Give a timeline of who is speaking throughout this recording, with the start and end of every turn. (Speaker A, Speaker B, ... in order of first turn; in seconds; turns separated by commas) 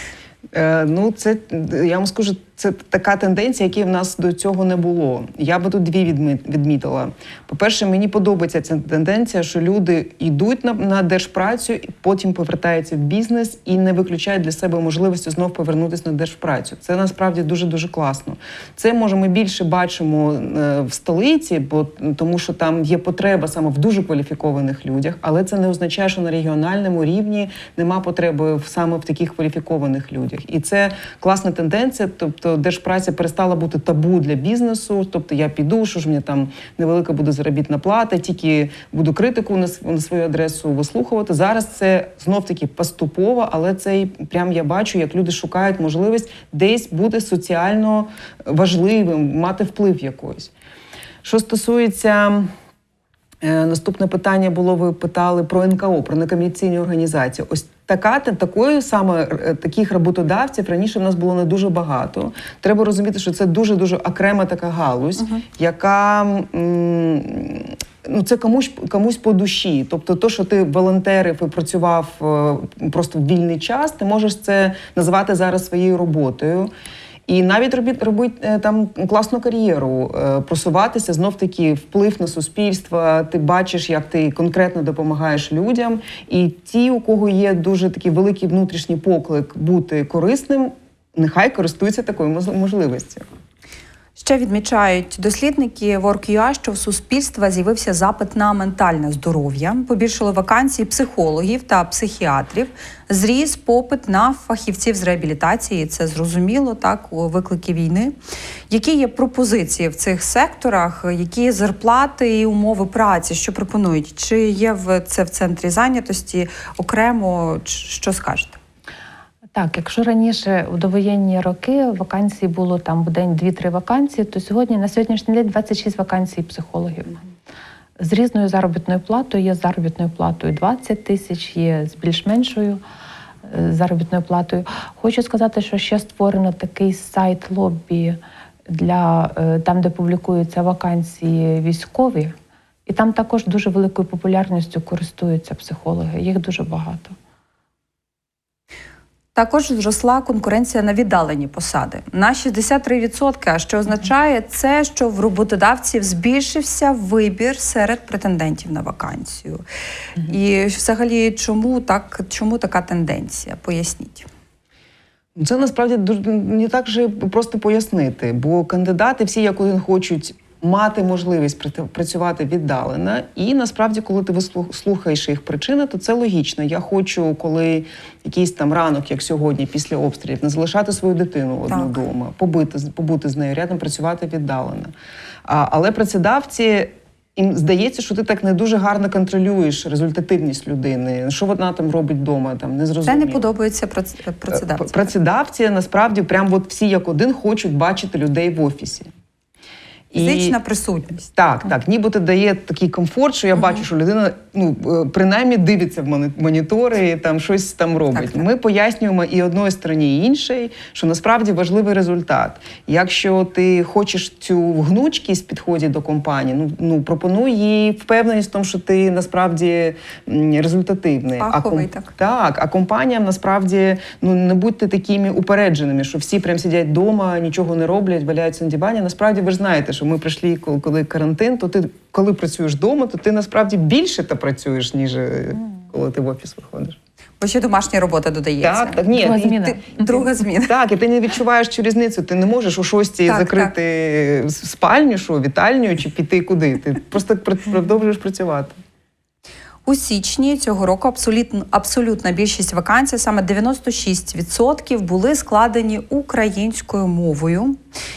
Speaker A: 0.5-50.5, Speaker A: 51.2-52.5, Speaker A: 53.4-76.7, Speaker A: 77.3-93.2, Speaker B: 94.2-108.1, Speaker B: 108.7-118.6, Speaker C: 119.5-127.2, Speaker C: 128.0-132.8, Speaker C: 133.4-138.2, Speaker C: 138.7-142.3, Speaker C: 142.8-147.2, Speaker B: 149.3-159.6, Speaker B: 160.2-164.3, Speaker A: 165.3-184.9, Speaker B: 181.7-182.0, Speaker A: 185.4-193.4, Speaker B: 193.1-195.1, Speaker A: 194.5-199.1, Speaker A: 200.1-200.6, Speaker B: 200.1-201.2, Speaker A: 201.3-237.0, Speaker B: 208.1-208.4, Speaker B: 221.4-222.1, Speaker B: 237.4-240.7, Speaker A: 238.6-248.8, Speaker C: 239.1-240.0, Speaker B: 243.3-243.7, Speaker B: 249.8-257.8